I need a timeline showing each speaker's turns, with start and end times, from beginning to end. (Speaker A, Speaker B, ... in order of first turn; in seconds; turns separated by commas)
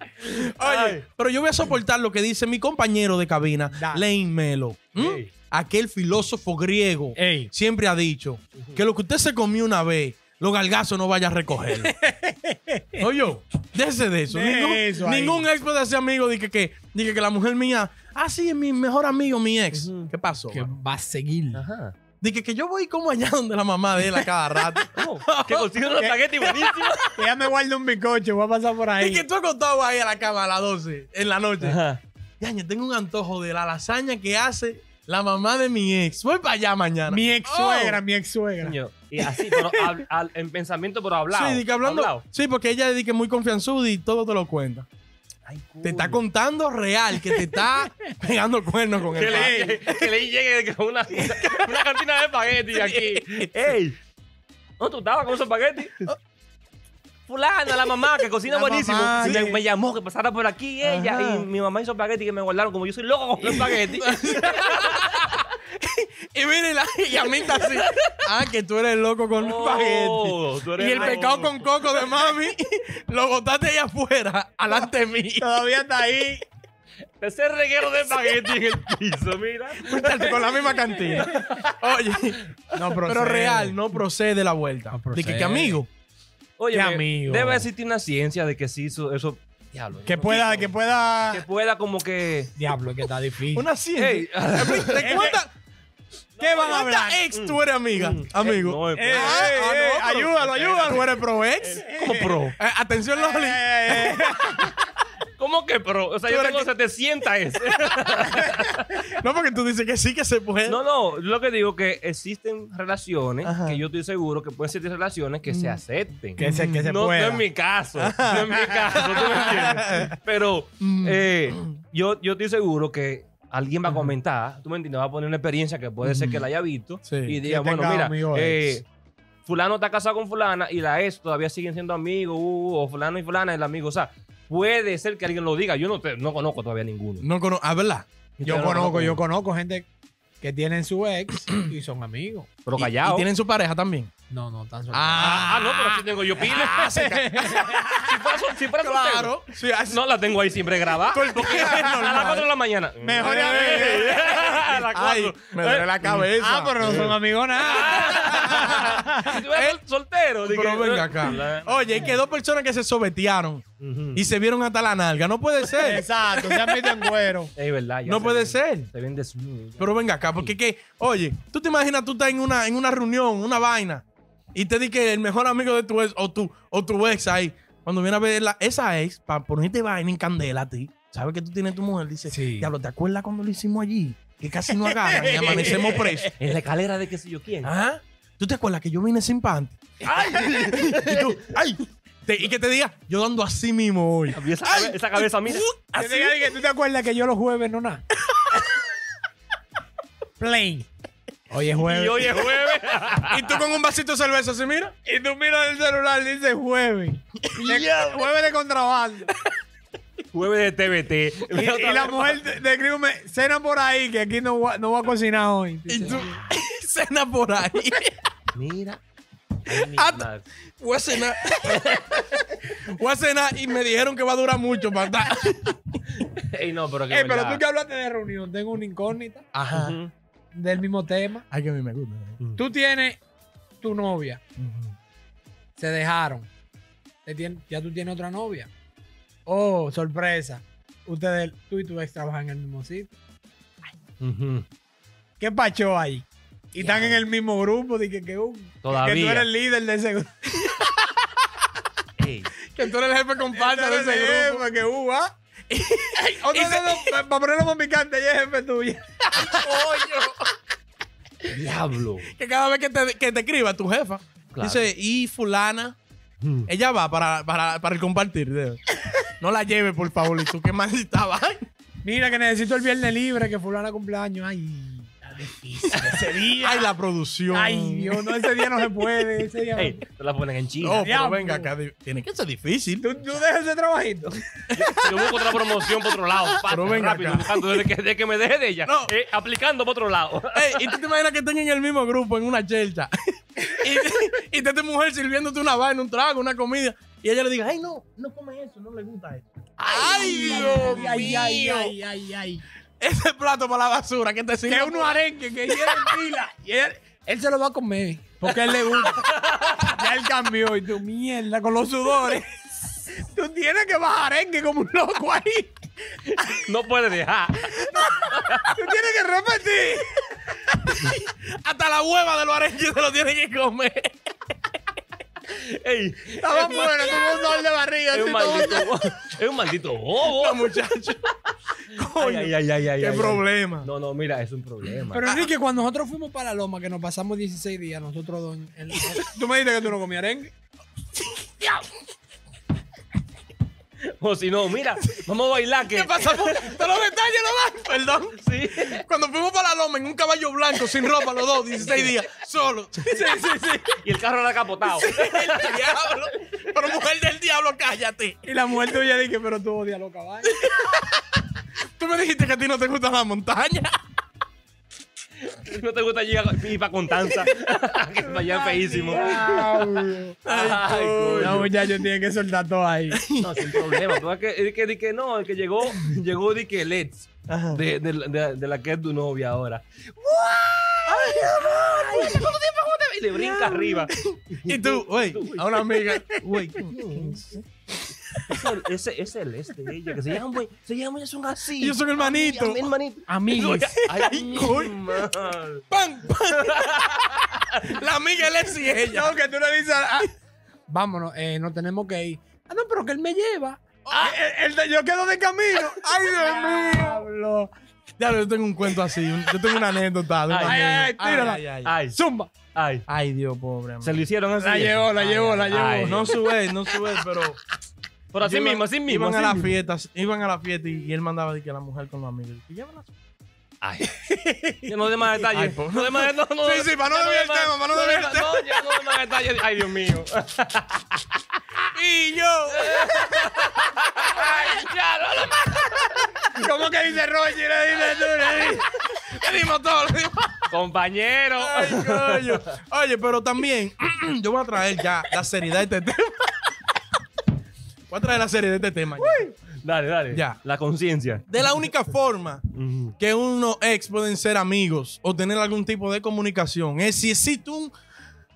Speaker A: 0.2-11.9, Speaker B: 0.6-1.0, Speaker C: 3.7-4.1, Speaker B: 5.0-5.3, Speaker C: 7.2-7.5, Speaker C: 11.7-13.0, Speaker A: 13.0-20.7, Speaker C: 14.3-15.5, Speaker B: 19.7-20.1, Speaker C: 20.5-21.6, Speaker B: 21.5-22.0, Speaker A: 22.2-25.7, Speaker C: 24.1-24.7, Speaker B: 24.9-27.2, Speaker C: 26.0-29.2, Speaker A: 29.0-31.8, Speaker B: 31.6-32.0, Speaker A: 32.4-38.0, Speaker C: 37.1-38.8, Speaker B: 38.6-42.2, Speaker A: 41.3-44.9, Speaker B: 45.5-46.2, Speaker A: 45.8-50.0, Speaker C: 47.2-47.6, Speaker B: 49.1-54.0, Speaker C: 49.2-49.8, Speaker A: 51.2-51.8, Speaker A: 52.7-53.5, Speaker B: 54.8-56.0, Speaker B: 57.3-65.3, Speaker A: 58.5-59.6, Speaker C: 59.2-59.6, Speaker A: 60.8-61.5, Speaker A: 63.4-75.5, Speaker B: 67.4-68.2, Speaker B: 69.4-71.5, Speaker C: 70.8-71.7, Speaker C: 75.4-76.4, Speaker B: 77.2-80.3, Speaker A: 79.8-82.4, Speaker C: 80.7-81.2, Speaker B: 81.2-81.8, Speaker C: 82.7-84.0, Speaker A: 83.0-85.9, Speaker C: 84.9-85.8, Speaker B: 86.6-90.7, Speaker C: 86.7-87.7, Speaker C: 90.1-91.5, Speaker B: 91.3-92.5, Speaker C: 92.6-93.7, Speaker A: 93.5-95.5, Speaker B: 94.0-95.3, Speaker C: 94.9-95.4, Speaker B: 96.4-96.7, Speaker C: 96.4-97.2, Speaker A: 96.5-104.7, Speaker B: 97.3-99.6, Speaker C: 99.0-101.2, Speaker B: 101.6-102.5, Speaker C: 101.8-102.5, Speaker C: 103.1-104.8, Speaker B: 105.4-109.0, Speaker A: 106.3-106.7, Speaker A: 107.7-107.9, Speaker A: 109.1-110.8, Speaker B: 110.7-128.9, Speaker A: 113.4-113.8, Speaker A: 115.5-115.8, Speaker A: 116.4-116.8, Speaker C: 116.4-117.5, Speaker A: 118.0-120.2, Speaker A: 120.8-121.8, Speaker A: 126.0-126.5, Speaker A: 127.0-127.4, Speaker C: 127.4-128.8, Speaker B: 129.5-137.3, Speaker A: 137.2-138.9, Speaker B: 138.4-139.2, Speaker C: 138.4-139.9, Speaker C: 140.4-142.5, Speaker B: 142.7-143.3, Speaker A: 142.8-144.1, Speaker C: 144.3-145.6, Speaker A: 144.9-148.1, Speaker B: 145.2-147.0, Speaker C: 146.7-148.0, Speaker B: 147.6-156.2, Speaker A: 148.8-150.0, Speaker A: 150.9-152.5, Speaker C: 153.0-154.4, Speaker A: 153.2-157.2, Speaker C: 156.4-159.4, Speaker B: 157.6-162.2, Speaker A: 158.1-159.8, Speaker A: 160.4-167.1, Speaker B: 163.8-164.2, Speaker C: 165.7-167.5, Speaker B: 167.6-170.5, Speaker A: 168.1-168.9, Speaker A: 169.8-186.3, Speaker C: 182.3-182.7, Speaker C: 184.8-186.3, Speaker B: 185.3-187.7, Speaker A: 187.6-189.8, Speaker B: 190.0-191.4, Speaker A: 190.3-196.4, Speaker B: 194.3-195.7, Speaker C: 195.9-198.0, Speaker C: 200.4-200.9, Speaker C: 201.5-202.6, Speaker B: 201.8-203.6, Speaker A: 203.3-204.9, Speaker C: 205.1-209.3, Speaker A: 207.4-208.3, Speaker B: 210.3-212.4, Speaker C: 211.5-216.4, Speaker A: 215.9-218.1, Speaker B: 218.6-219.0, Speaker B: 219.7-220.5, Speaker A: 219.7-220.3, Speaker A: 220.8-226.0, Speaker B: 221.7-222.3, Speaker B: 226.3-227.6, Speaker C: 227.1-229.4, Speaker A: 229.5-230.0, Speaker B: 229.7-230.1, Speaker C: 230.5-231.4, Speaker A: 231.5-232.4, Speaker C: 232.6-233.2, Speaker C: 233.8-234.4, Speaker A: 234.6-234.9, Speaker C: 235.8-236.5, Speaker C: 237.2-238.7, Speaker C: 239.5-243.2, Speaker B: 244.2-244.7, Speaker C: 245.4-250.4, Speaker B: 246.8-247.2, Speaker B: 248.8-249.5, Speaker B: 252.2-252.6, Speaker A: 252.7-254.7, Speaker C: 253.5-255.3, Speaker A: 255.7-257.2, Speaker C: 256.2-259.1, Speaker A: 259.3-260.4, Speaker B: 261.5-262.3, Speaker A: 262.3-266.0, Speaker B: 264.5-264.9, Speaker B: 266.4-266.7, Speaker A: 266.7-271.7, Speaker C: 272.0-276.9, Speaker A: 276.0-278.9, Speaker C: 277.5-280.0, Speaker B: 279.8-281.1, Speaker A: 280.8-283.1, Speaker C: 281.0-281.7, Speaker C: 283.0-284.5, Speaker A: 284.7-285.6, Speaker B: 284.7-291.0, Speaker A: 286.5-287.9, Speaker A: 288.9-289.1, Speaker A: 290.5-301.9, Speaker C: 299.8-302.6, Speaker B: 300.6-301.0, Speaker A: 303.0-306.2, Speaker C: 304.7-309.3, Speaker B: 309.0-310.0, Speaker C: 309.9-316.6, Speaker B: 316.5-318.8, Speaker C: 317.8-320.6, Speaker A: 320.8-324.2, Speaker B: 325.5-330.8, Speaker C: 326.4-328.9, Speaker A: 330.2-331.2, Speaker A: 331.9-333.9, Speaker B: 331.9-335.2, Speaker C: 335.1-340.5, Speaker A: 335.2-335.5, Speaker B: 344.1-346.8, Speaker A: 345.8-353.2, Speaker B: 348.4-349.0, Speaker B: 351.8-352.2, Speaker C: 353.0-354.0, Speaker B: 354.0-356.2, Speaker A: 355.0-358.4, Speaker C: 358.4-360.8, Speaker A: 360.7-361.0, Speaker A: 362.0-363.9, Speaker B: 365.4-369.7, Speaker C: 368.3-370.4, Speaker A: 369.3-369.9, Speaker A: 370.4-371.9, Speaker B: 370.5-371.7, Speaker C: 371.3-373.2, Speaker A: 373.1-374.2, Speaker B: 373.4-385.6, Speaker A: 377.5-377.8, Speaker A: 381.1-382.4, Speaker C: 383.4-384.1, Speaker A: 384.1-387.6, Speaker C: 385.9-386.6, Speaker B: 386.8-387.5, Speaker B: 388.5-395.8, Speaker A: 391.8-392.9, Speaker C: 393.3-394.1, Speaker A: 394.1-395.0, Speaker A: 395.9-399.4, Speaker B: 396.6-398.0, Speaker C: 398.9-400.3, Speaker C: 400.9-407.7, Speaker A: 404.1-404.4, Speaker A: 405.8-407.2, Speaker A: 408.2-411.9, Speaker B: 410.5-412.2, Speaker C: 410.6-412.5, Speaker B: 412.8-413.1, Speaker A: 413.1-414.2, Speaker B: 414.0-416.4, Speaker C: 414.6-416.5, Speaker A: 416.0-417.6, Speaker B: 418.3-419.7, Speaker A: 418.4-423.1, Speaker B: 423.8-424.2, Speaker C: 424.4-424.9, Speaker B: 424.9-431.3, Speaker A: 425.5-429.0, Speaker A: 431.9-433.3, Speaker B: 432.7-436.2, Speaker C: 436.5-438.9, Speaker A: 438.3-440.8, Speaker B: 440.7-442.6, Speaker A: 441.6-446.7, Speaker A: 448.1-449.5, Speaker C: 449.2-449.5, Speaker B: 449.8-451.7, Speaker A: 450.3-450.6, Speaker A: 451.5-457.9, Speaker B: 452.7-453.1